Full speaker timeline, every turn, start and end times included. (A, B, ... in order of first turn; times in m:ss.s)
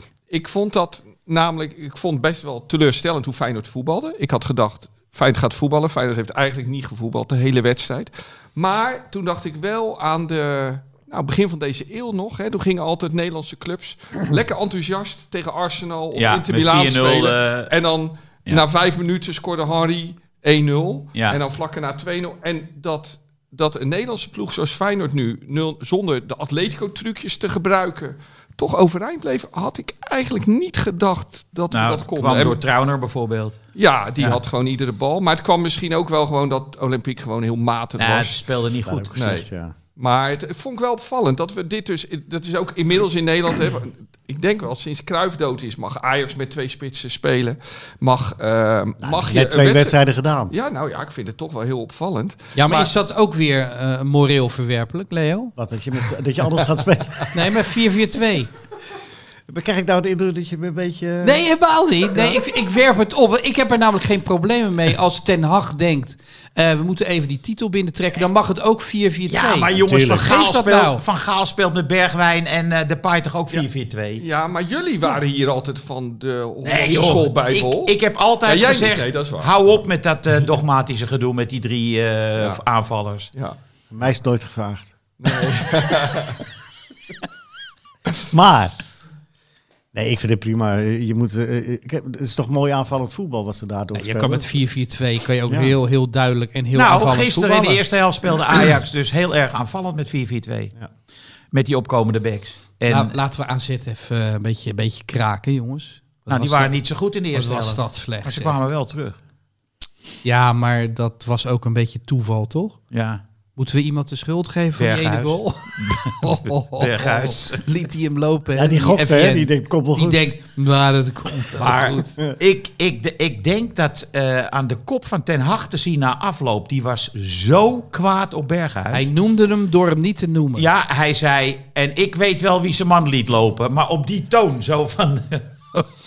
0:00.3-0:32.6 A
0:16.2-0:17.7 B
0:21.2-0:21.4 B
0:31.7-0:33.6 B
0:33.8-0:38.4 A
0:38.0-0:39.2 B
0:38.8-0:39.7 C
0:39.2-0:52.9 A
0:49.0-0:50.5 C
0:52.6-0:55.5 D
0:55.6-0:57.4 C
0:57.3-0:58.5 D
0:59.5-1:01.4 C
1:01.2-1:11.0 D
1:09.3-1:14.2 B
1:09.8-1:10.2 C
1:14.2-1:19.6 A
1:16.6-1:23.3 B
1:23.9-1:24.9 C
1:25.2-1:26.4 A
1:28.2-1:28.8 C
1:29.9-1:34.5 C
1:33.9-1:37.8 D
1:35.5-1:35.7 C
1:36.7-1:40.7 B
1:41.5-1:43.2 B
1:42.9-1:46.8 D
1:46.3-1:49.2 B
1:47.3-1:48.6 D
1:50.2-1:52.8 D
1:52.9-1:53.2 B
1:53.6-2:02.2 D
1:54.8-1:57.6 B
1:58.6-2:00.2 C
2:01.5-2:09.1 B
2:08.9-2:10.7 D
2:10.6-2:15.9 B